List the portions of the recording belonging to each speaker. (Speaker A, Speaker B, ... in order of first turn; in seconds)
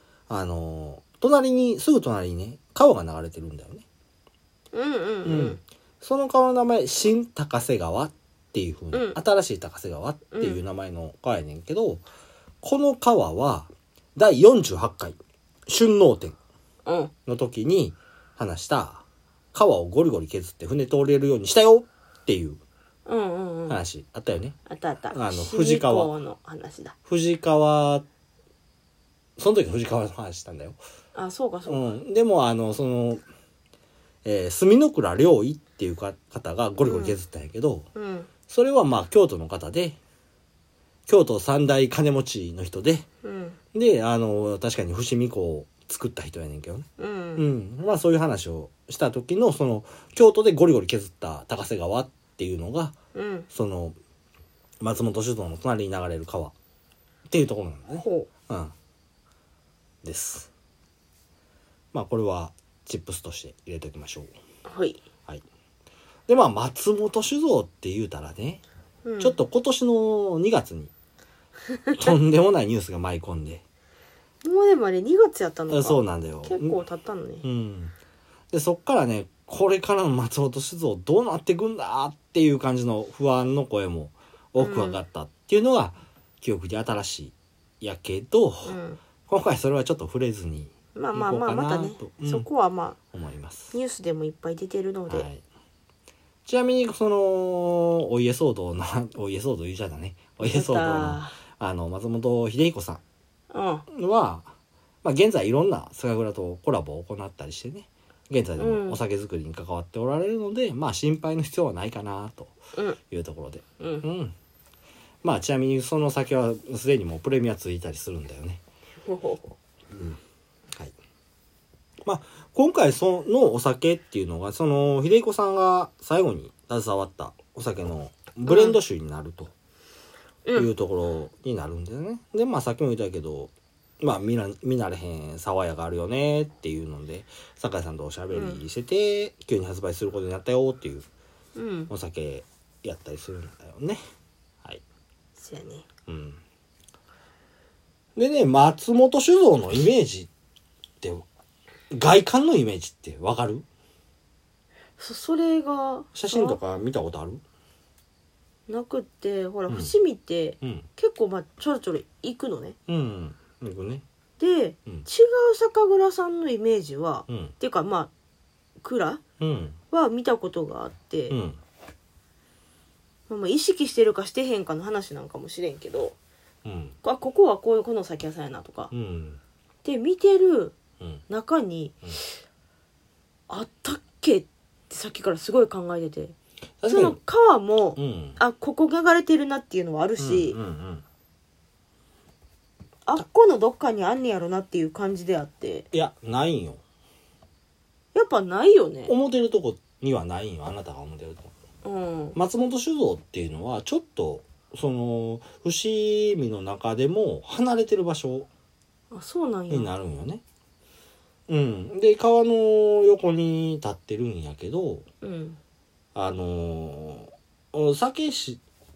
Speaker A: 0.3-3.8, 5.2-12.0, 12.6-16.4, 17.2-22.6, 23.7-24.6, 25.1-26.1, 27.1-28.0, 29.4-30.8, 31.7-33.2, 34.2-37.9, 38.5-40.0, 41.1-43.0, 43.7-52.9, 53.5-54.0, 54.8-56.5, 57.3-58.7, 60.0-60.5, 61.9-64.3, 66.3-68.6, 69.2-70.9, 71.9-73.6, 75.7-76.8, 77.4-77.9, 78.5-92.5, 93.1-93.8, 95.1-95.4, 96.5-103.0, 103.9-104.5, 105.0-112.5, 113.1-114.3, 115.2-118.6, 119.9-120.2, 122.0-129.5, 130.5-141.1, 141.9-144.0, 146.1-146.4, 148.2-150.3, 151.9-153.6, 156.1-157.4, 159.7-159.9, 160.6-160.9, 162.9-164.0, 167.3-167.5, 169.4-169.8, 171.3-171.6, 176.6-176.9, 178.9-179.4, 186.8-187.2, 187.9-188.4, 190.2-191.0, 195.9-196.8, 199.1-201.5, 202.3-208.5, 209.7-210.4, 211.5-215.1, 216.1-218.6
Speaker B: 4.7-5.6, 8.9-9.2, 10.3-10.6, 16.8-17.1, 23.1-23.8, 24.7-26.9, 31.1-31.8, 36.8-37.1, 37.9-38.3, 43.2-43.6, 47.0-47.4, 53.1-53.5, 58.0-58.3, 64.6-65.0, 69.0-69.4, 71.8-72.1, 74.4-77.4, 84.6-85.0, 88.6-89.0, 90.9-93.0, 93.7-95.3, 100.4-101.4, 103.5-103.8, 108.6-109.0, 113.8-114.0, 119.0-119.5, 128.5-128.8, 130.4-130.7, 138.3-138.6, 141.5-141.9, 145.4-145.9, 155.0-156.6, 158.7-162.8, 164.4-168.1, 168.8-169.2, 169.9-171.3, 173.3-176.1, 177.0-178.9, 179.8-180.8, 181.3-182.0, 183.5-186.3, 186.9-190.6, 193.1-195.9, 198.1-199.1, 201.8-202.4, 209.1-209.9, 215.2-215.6